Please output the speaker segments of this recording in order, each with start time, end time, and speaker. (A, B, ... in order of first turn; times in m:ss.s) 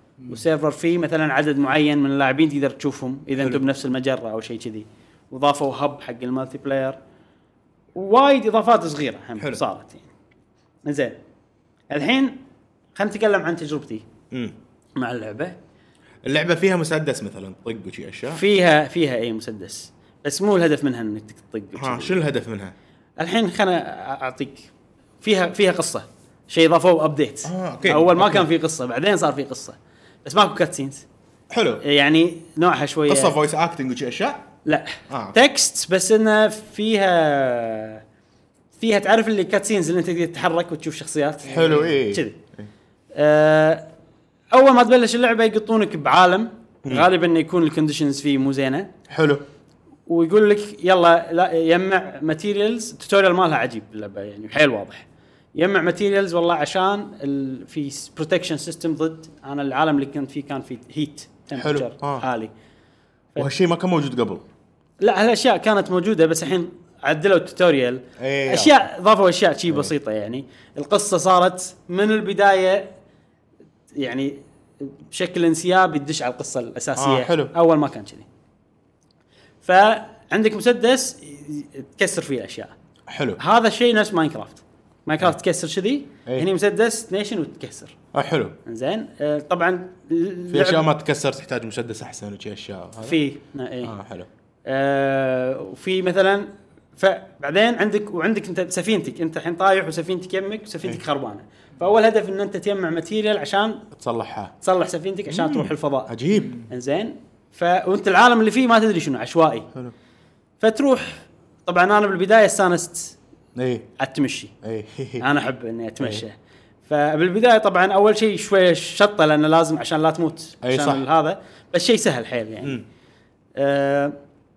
0:00.3-0:07.0 A
0:08.0-0:10.1 A
0:10.8-0:11.2 A
0:11.9-0:12.4 A
0:13.0-0:14.0 A
0:15.0-0:15.6 A
0:16.2-0:18.4 B
0:18.3-0:22.2 A
0:21.8-0:22.7 B
0:23.2-0:24.7 A
0:25.2-0:31.0 A
0:27.4-0:28.5 B
0:31.5-0:31.8 B
0:31.8-0:33.4 A
0:33.1-0:34.5 B
0:34.6-0:38.0 A
0:35.1-0:35.4 B
0:38.8-0:42.4 A
0:41.5-0:42.7 B
0:43.1-0:43.9 A
0:44.5-0:48.9 A
0:49.1-0:49.4 B
0:50.1-1:02.5 A
1:01.6-1:02.2 B
1:03.4-1:04.4 B
1:05.0-1:12.9 A
1:08.2-1:08.8 B
1:14.0-1:18.3 A
1:17.0-1:17.5 B
1:19.6-1:22.7 A
1:23.1-1:23.4 B
1:23.4-1:28.0 A
1:28.1-1:28.6 B
1:28.7-1:30.8 A
1:30.5-1:33.2 B
1:33.0-1:33.9 A
1:33.8-1:34.3 B
1:34.7-1:43.8 A
1:43.9-1:44.5 B
1:44.6-1:49.7 A
1:45.3-1:46.6 B
1:50.6-1:53.2 A
1:53.6-1:53.9 B
1:54.0-1:54.5 A
1:54.6-1:55.2 B
1:55.2-1:56.4 A
1:56.9-2:02.8 A
2:00.6-2:01.0 B
2:03.6-2:04.2 A